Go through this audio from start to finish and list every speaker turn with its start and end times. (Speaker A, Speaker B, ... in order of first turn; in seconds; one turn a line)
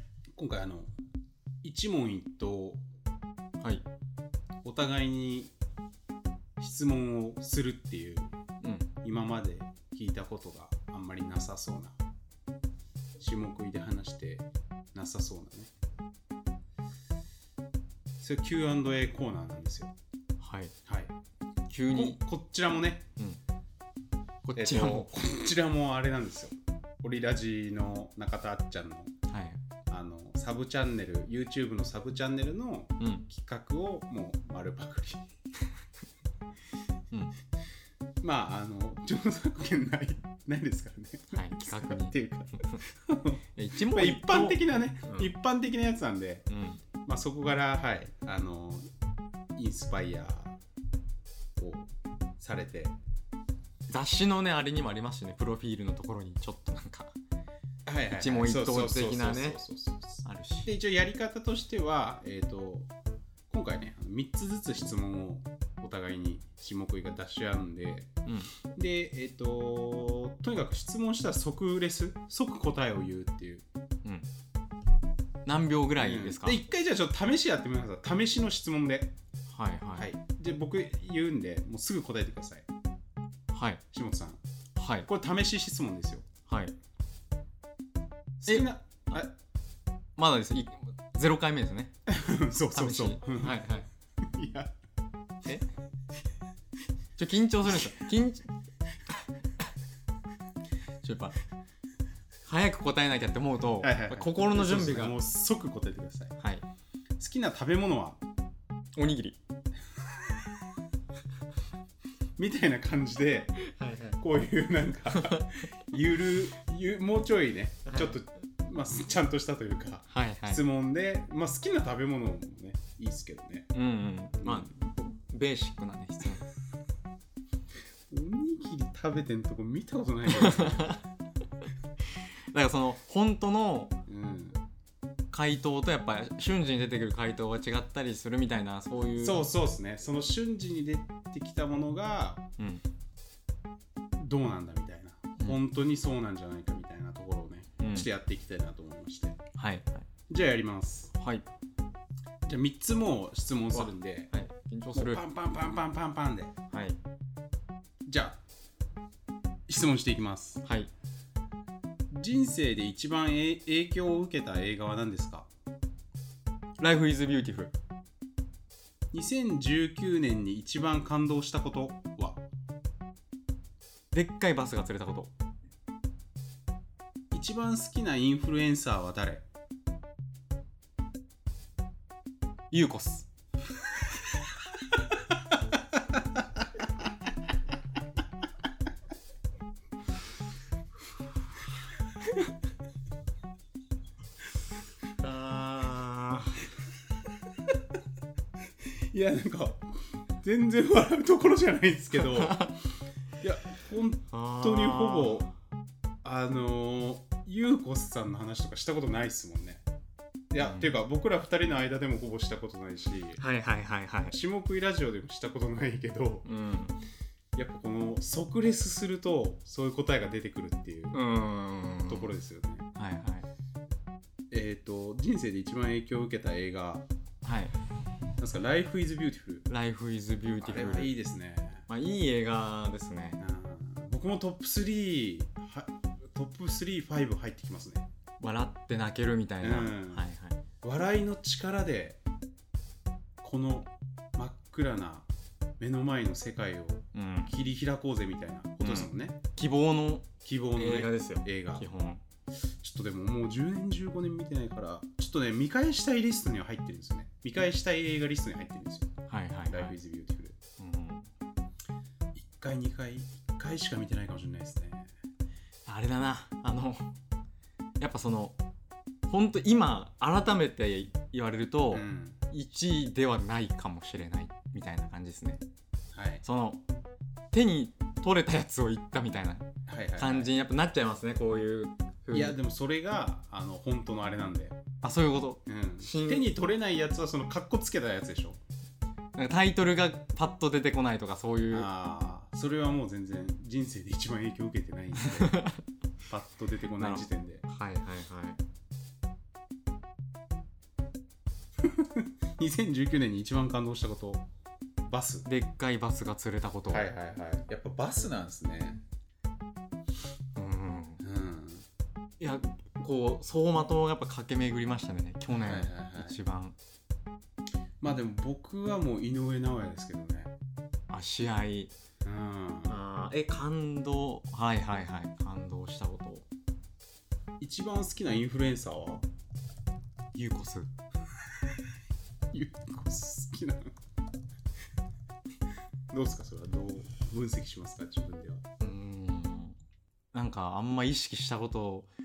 Speaker A: 0.3-0.9
Speaker A: 1.6-2.8
Speaker B: 3.6-3.9
Speaker A: 4.6-5.5
Speaker A: 6.6-8.3
Speaker B: 8.6-8.9
Speaker A: 9.0-12.0
Speaker A: 13.2-15.7
Speaker A: 18.2-19.9
Speaker B: 20.4-20.7
Speaker A: 20.9-21.1
Speaker B: 21.7-22.2
Speaker A: 21.9-23.1
Speaker B: 24.4-25.1
Speaker A: 24.6-29.1
Speaker B: 29.3-29.6
Speaker A: 29.9-35.2
Speaker B: 33.0-33.3
Speaker A: 38.2-46.5
Speaker B: 41.3-42.2
Speaker B: 43.5-45.3
Speaker B: 46.5-46.8
Speaker A: 47.0-48.9
Speaker A: 49.6-50.6
Speaker A: 51.6-53.0
Speaker B: 53.9-57.1
Speaker A: 57.9-62.9
Speaker B: 58.1-59.6
Speaker B: 60.2-60.7
Speaker A: 63.5-68.1
Speaker B: 68.3-68.5
Speaker A: 68.8-73.6
Speaker B: 75.5-76.6
Speaker A: 76.0-79.1
Speaker B: 79.5-80.1
Speaker A: 80.0-82.7
Speaker B: 83.5-83.8
Speaker A: 83.9-84.4
Speaker B: 84.8-85.1
Speaker A: 85.1-86.3
Speaker B: 86.5-86.8
Speaker A: 88.4-89.3
Speaker B: 90.2-91.9
Speaker A: 92.1-93.6
Speaker B: 92.7-93.9
Speaker A: 94.2-94.7
Speaker B: 97.2-98.5
Speaker B: 101.0-101.4
Speaker B: 102.5-105.2
Speaker A: 103.8-106.4
Speaker B: 106.4-106.6
Speaker A: 107.2-108.2
Speaker B: 109.0-109.4
Speaker A: 112.4-113.6
Speaker B: 113.6-114.2
Speaker A: 114.2-123.7
Speaker B: 115.2-115.6
Speaker B: 117.9-118.2
Speaker B: 120.1-120.6
Speaker B: 123.7-126.5
Speaker A: 124.4-124.7
Speaker A: 128.1-131.0
Speaker B: 130.4-131.0
Speaker B: 132.5-133.9
Speaker A: 134.1-134.6
Speaker B: 135.3-139.5
Speaker A: 139.2-142.4
Speaker B: 142.6-142.8
Speaker A: 144.2-149.4
Speaker B: 147.8-148.1
Speaker B: 149.6-150.1
Speaker A: 150.3-151.1
Speaker B: 151.2-151.5
Speaker A: 152.4-154.3
Speaker B: 153.7-155.2
Speaker A: 154.9-156.5
Speaker B: 156.7-157.0
Speaker A: 158.1-158.4
Speaker A: 159.7-160.6
Speaker B: 160.6-160.9
Speaker A: 162.1-165.5
Speaker B: 166.8-167.7
Speaker A: 169.1-172.4
Speaker B: 174.1-175.3
Speaker A: 177.3-179.4
Speaker B: 182.7-183.3
Speaker B: 195.2-196.7
Speaker A: 199.1-202.7
Speaker B: 202.2-202.7
Speaker A: 203.4-205.5
Speaker B: 204.3-205.5
Speaker A: 206.2-209.8
Speaker A: 210.5-213.4
Speaker B: 210.6-210.9
Speaker B: 213.4-214.4
Speaker A: 214.3-216.5
Speaker B: 216.4-217.0
Speaker A: 217.6-221.2
Speaker B: 221.1-222.3
Speaker A: 222.1-222.9
Speaker B: 222.9-223.5
Speaker A: 224.5-227.1
Speaker B: 227.4-227.7
Speaker A: 228.4-229.7
Speaker B: 229.7-231.1
Speaker A: 230.6-231.9
Speaker B: 231.9-233.4
Speaker A: 233.4-238.1
Speaker B: 238.4-240.6
Speaker A: 239.6-240.3
Speaker A: 240.8-242.2
Speaker A: 243.4-245.3
Speaker A: 245.8-249.4
Speaker B: 247.1-247.5
Speaker B: 248.8-252.2
Speaker A: 250.4-251.9
Speaker A: 252.8-259.1
Speaker B: 259.3-260.0
Speaker A: 259.7-260.6
Speaker B: 260.8-261.3
Speaker A: 262.4-265.1
Speaker B: 265.9-267.1
Speaker B: 268.0-268.6
Speaker B: 269.3-275.6
Speaker A: 271.9-272.4
Speaker A: 276.1-276.4
Speaker B: 276.4-276.8
Speaker B: 277.5-282.6
Speaker A: 279.9-280.5
Speaker A: 282.3-284.8
Speaker B: 285.0-286.5
Speaker A: 285.6-288.6
Speaker B: 289.4-291.9
Speaker A: 291.7-295.7
Speaker B: 295.3-295.8
Speaker A: 296.3-297.6
Speaker B: 297.0-298.6
Speaker A: 301.8-304.5
Speaker A: 305.1-305.5
Speaker B: 305.5-307.1
Speaker A: 306.9-309.0
Speaker B: 310.6-311.2
Speaker A: 311.2-311.9
Speaker B: 312.4-316.8
Speaker A: 315.5-316.4
Speaker A: 318.0-320.5
Speaker B: 321.1-321.9
Speaker A: 322.2-323.0
Speaker B: 322.9-326.5
Speaker A: 327.6-329.3
Speaker B: 330.3-330.9
Speaker A: 332.5-333.9
Speaker A: 336.1-338.6
Speaker B: 338.8-339.8
Speaker B: 340.3-342.1